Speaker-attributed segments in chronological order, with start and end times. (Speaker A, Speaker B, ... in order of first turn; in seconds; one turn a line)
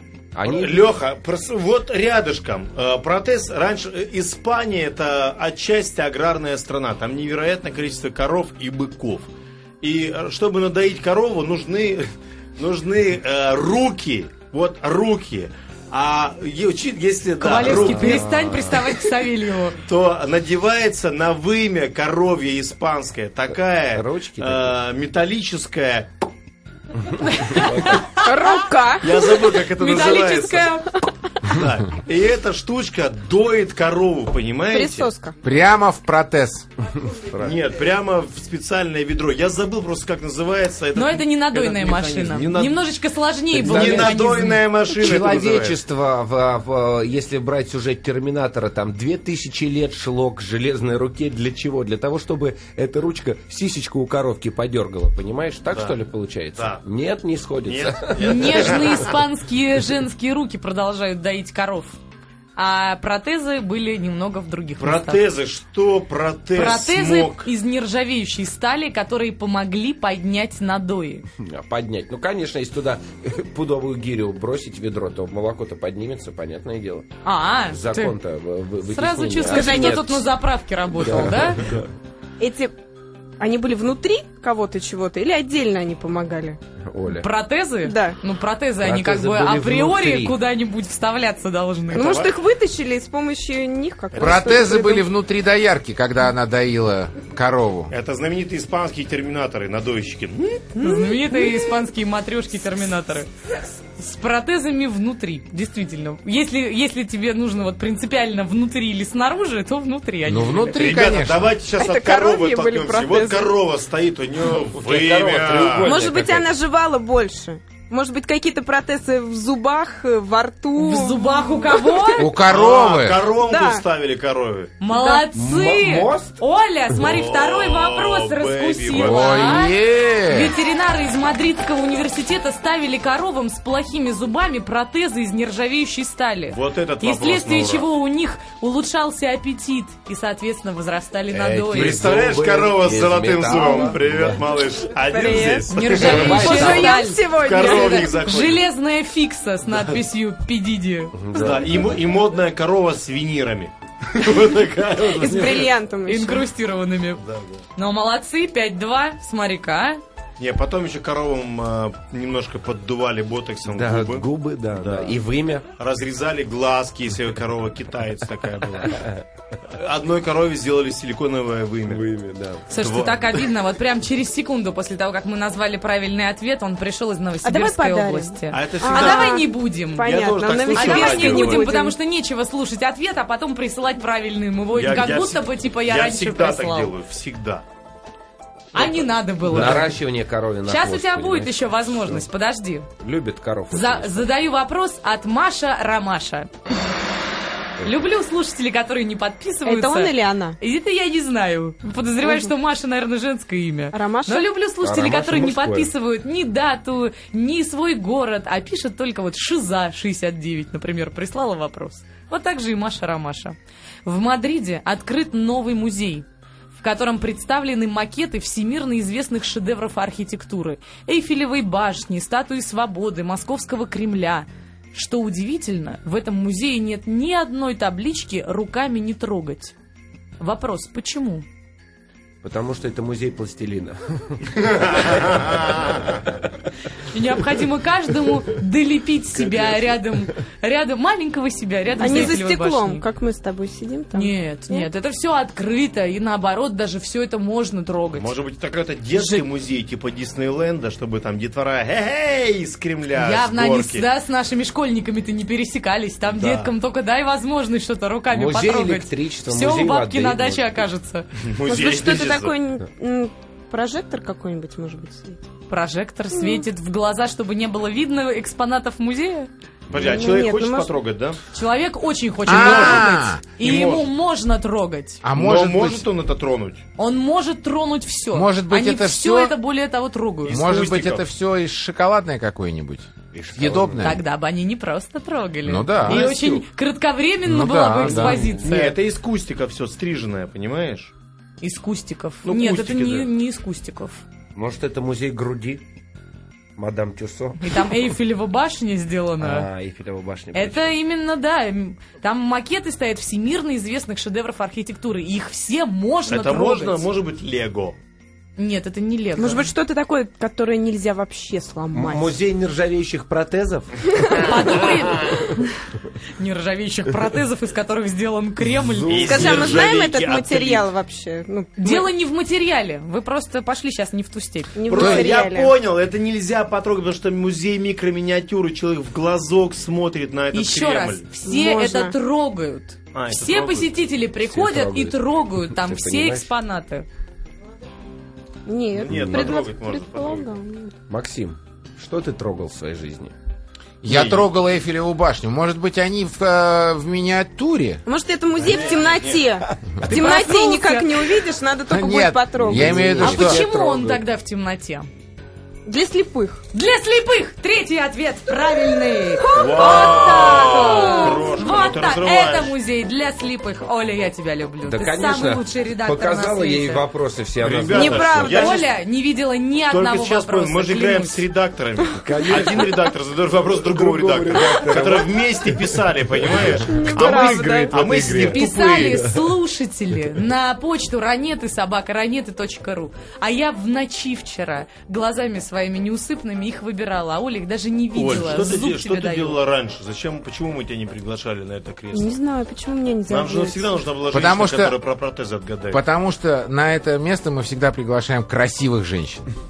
Speaker A: 0.3-0.9
Speaker B: 0.4-9.3
Speaker B: 9.8-18.3
Speaker C: 17.4-19.8
Speaker A: 17.6-18.9
Speaker B: 19.9-26.1
Speaker A: 23.9-24.8
Speaker C: 27.2-28.5
Speaker A: 27.6-28.0
Speaker D: 28.2-29.4
Speaker B: 29.0-30.8
Speaker C: 29.7-31.1
Speaker B: 31.4-35.1
Speaker D: 34.7-35.4
Speaker E: 35.4-36.7
Speaker A: 37.0-37.6
Speaker B: 37.4-42.8
Speaker C: 40.9-44.7
Speaker B: 43.5-45.8
Speaker A: 43.5-44.3
Speaker A: 44.9-59.0
Speaker B: 56.6-56.8
Speaker B: 57.6-59.2
Speaker C: 58.2-62.0
Speaker C: 62.6-65.2
Speaker B: 64.8-67.5
Speaker C: 66.5-71.3
Speaker A: 71.4-77.2
Speaker C: 77.2-78.2
Speaker A: 77.7-80.3
Speaker C: 78.8-81.7
Speaker D: 79.5-80.2
Speaker A: 81.0-81.9
Speaker D: 82.4-82.8
Speaker D: 83.4-86.6
Speaker A: 86.8-87.3
Speaker C: 87.1-92.3
Speaker D: 87.8-88.2
Speaker A: 88.8-90.4
Speaker B: 91.9-92.4
Speaker D: 91.9-95.1
Speaker E: 94.1-97.9
Speaker B: 97.9-100.7
Speaker D: 100.8-101.8
Speaker C: 100.8-103.3
Speaker C: 104.0-111.1
Speaker E: 110.2-111.5
Speaker B: 110.8-115.9
Speaker D: 111.8-113.5
Speaker A: 114.7-116.5
Speaker D: 115.8-122.4
Speaker C: 120.8-122.3
Speaker E: 122.2-123.3
Speaker B: 122.4-124.8
Speaker D: 123.3-123.8
Speaker C: 124.8-142.0
Speaker D: 124.9-125.3
Speaker A: 125.3-126.4
Speaker B: 126.9-129.7
Speaker E: 128.9-130.6
Speaker B: 136.5-137.9
Speaker A: 141.3-144.4
Speaker B: 141.7-148.7
Speaker D: 145.1-148.2
Speaker C: 145.7-151.2
Speaker A: 145.9-147.0
Speaker B: 149.7-150.0
Speaker A: 151.2-151.9
Speaker B: 151.3-155.7
Speaker D: 151.4-151.7
Speaker D: 155.1-156.5
Speaker C: 156.1-157.2
Speaker B: 157.2-157.6
Speaker C: 157.8-160.0
Speaker B: 160.4-165.2
Speaker A: 163.7-165.7
Speaker B: 165.8-169.1
Speaker A: 168.8-169.2
Speaker B: 169.7-172.0
Speaker A: 171.9-172.7
Speaker C: 172.7-180.2
Speaker B: 172.8-173.4
Speaker D: 177.4-182.0
Speaker B: 178.5-179.5
Speaker B: 180.0-181.8
Speaker C: 180.7-186.9
Speaker B: 184.7-187.7
Speaker C: 188.7-190.0
Speaker B: 188.8-189.9
Speaker A: 189.4-192.2
Speaker C: 190.7-192.9
Speaker A: 193.0-194.3
Speaker C: 193.7-196.5
Speaker C: 197.8-229.8
Speaker D: 199.7-200.6
Speaker D: 202.2-202.5
Speaker D: 203.9-204.5
Speaker A: 204.8-205.9
Speaker C: 230.4-231.5
Speaker A: 232.4-236.2
Speaker B: 234.6-236.2
Speaker C: 237.0-243.1
Speaker D: 242.0-244.9
Speaker C: 244.1-248.3
Speaker B: 248.2-254.1
Speaker C: 249.2-249.4
Speaker C: 253.2-261.3
Speaker B: 256.3-256.7
Speaker A: 258.3-260.8
Speaker B: 261.4-262.6
Speaker D: 261.6-265.5
Speaker C: 265.7-269.5
Speaker D: 266.4-266.6
Speaker B: 269.9-271.4
Speaker D: 270.0-270.9
Speaker C: 271.5-275.2
Speaker E: 272.5-273.5
Speaker B: 272.5-274.1
Speaker E: 275.2-276.1
Speaker B: 275.3-276.9
Speaker C: 277.0-280.6
Speaker E: 278.3-279.6
Speaker B: 280.5-281.2
Speaker E: 280.5-284.2
Speaker A: 283.3-284.1
Speaker C: 284.0-288.9
Speaker E: 285.6-286.3
Speaker B: 286.1-286.7
Speaker E: 287.4-288.4
Speaker A: 288.0-288.8
Speaker B: 288.5-291.1
Speaker C: 291.6-294.2
Speaker B: 292.4-293.3
Speaker A: 294.6-295.8
Speaker A: 296.8-297.9
Speaker C: 297.6-299.7
Speaker A: 299.4-300.9
Speaker C: 300.5-307.1
Speaker B: 306.3-308.0
Speaker C: 308.6-309.7
Speaker D: 309.4-312.3
Speaker A: 311.9-314.0
Speaker D: 314.2-314.6
Speaker C: 314.3-315.7
Speaker C: 316.4-319.6
Speaker A: 318.8-319.8
Speaker B: 319.1-320.9
Speaker D: 319.3-322.1
Speaker C: 321.8-324.8
Speaker D: 324.8-325.8
Speaker B: 324.9-331.3
Speaker E: 324.9-325.3
Speaker C: 330.5-337.1
Speaker D: 331.4-332.1
Speaker B: 333.1-333.9
Speaker A: 334.4-336.5
Speaker D: 338.7-340.9
Speaker B: 339.0-340.5
Speaker A: 339.1-339.6
Speaker A: 341.1-343.3
Speaker E: 344.0-348.0
Speaker B: 344.1-344.4
Speaker D: 348.1-353.2
Speaker B: 348.6-349.5
Speaker C: 350.0-351.3
Speaker E: 351.9-353.7
Speaker A: 352.6-354.2
Speaker C: 353.2-355.1
Speaker D: 355.9-356.6
Speaker C: 356.7-367.0
Speaker D: 359.4-361.6
Speaker B: 359.5-362.8
Speaker A: 364.8-368.7
Speaker B: 367.6-368.9
Speaker D: 367.9-368.7
Speaker C: 368.4-371.4
Speaker B: 369.9-379.3
Speaker A: 372.2-373.1
Speaker A: 373.7-376.9
Speaker D: 376.8-378.0
Speaker E: 377.1-378.6
Speaker C: 378.4-389.6
Speaker A: 379.0-379.4
Speaker B: 388.1-392.3
Speaker D: 392.1-393.9
Speaker B: 393.3-396.0
Speaker E: 394.3-394.9
Speaker E: 395.9-399.5